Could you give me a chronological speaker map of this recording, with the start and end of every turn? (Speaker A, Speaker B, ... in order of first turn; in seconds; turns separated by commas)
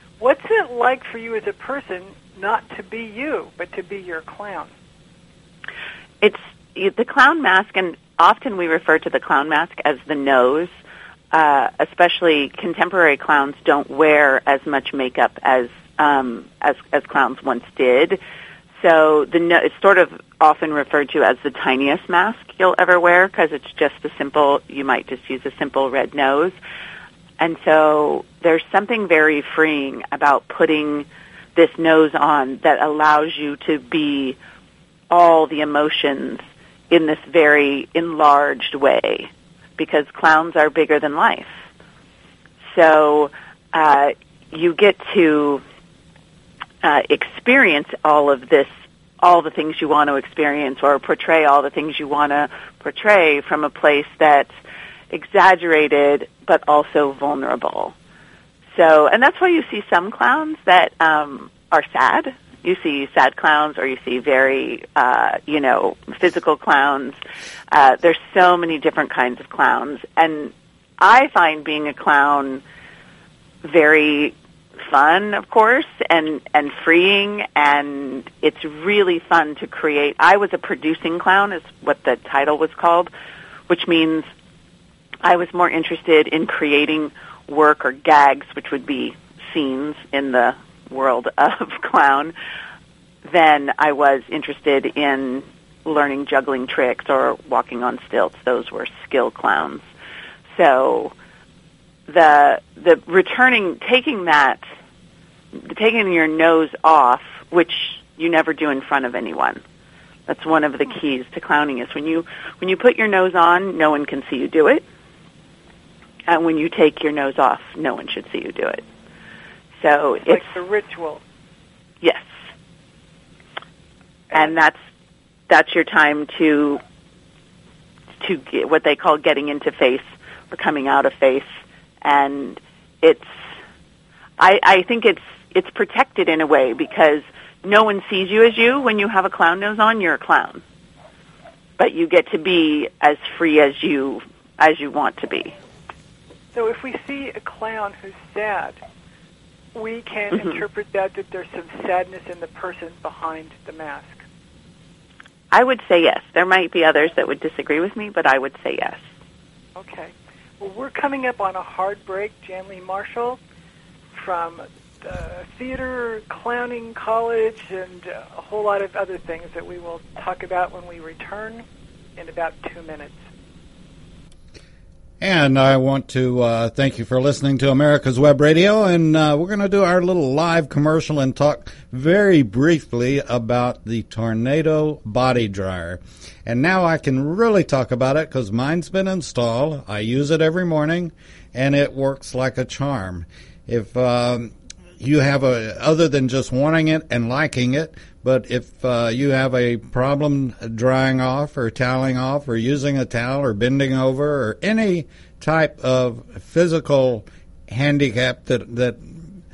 Speaker A: 0.2-4.7, Speaker B: 6.2-10.7, Speaker B: 11.3-18.2, Speaker B: 18.8-26.6, Speaker B: 27.4-34.4, Speaker B: 35.1-41.6, Speaker B: 42.7-45.6, Speaker B: 46.8-54.5, Speaker B: 55.1-57.9, Speaker B: 58.7-67.2, Speaker B: 67.7-72.6, Speaker B: 73.6-83.1, Speaker B: 83.7-84.3, Speaker B: 85.2-92.3, Speaker B: 93.3-99.9, Speaker B: 100.5-101.1, Speaker B: 102.1-104.6, Speaker B: 105.6-109.6, Speaker B: 110.3-114.8, Speaker B: 116.3-118.8, Speaker B: 119.8-120.5, Speaker A: 120.3-121.2, Speaker B: 122.0-122.3, Speaker B: 124.3-124.8, Speaker B: 125.5-126.8, Speaker B: 128.2-133.3, Speaker B: 134.4-140.6, Speaker B: 141.8-145.6, Speaker A: 146.5-148.8, Speaker A: 149.7-154.2, Speaker B: 155.5-159.1, Speaker A: 159.8-163.4, Speaker A: 164.2-171.7, Speaker A: 172.2-173.2, Speaker C: 175.2-209.2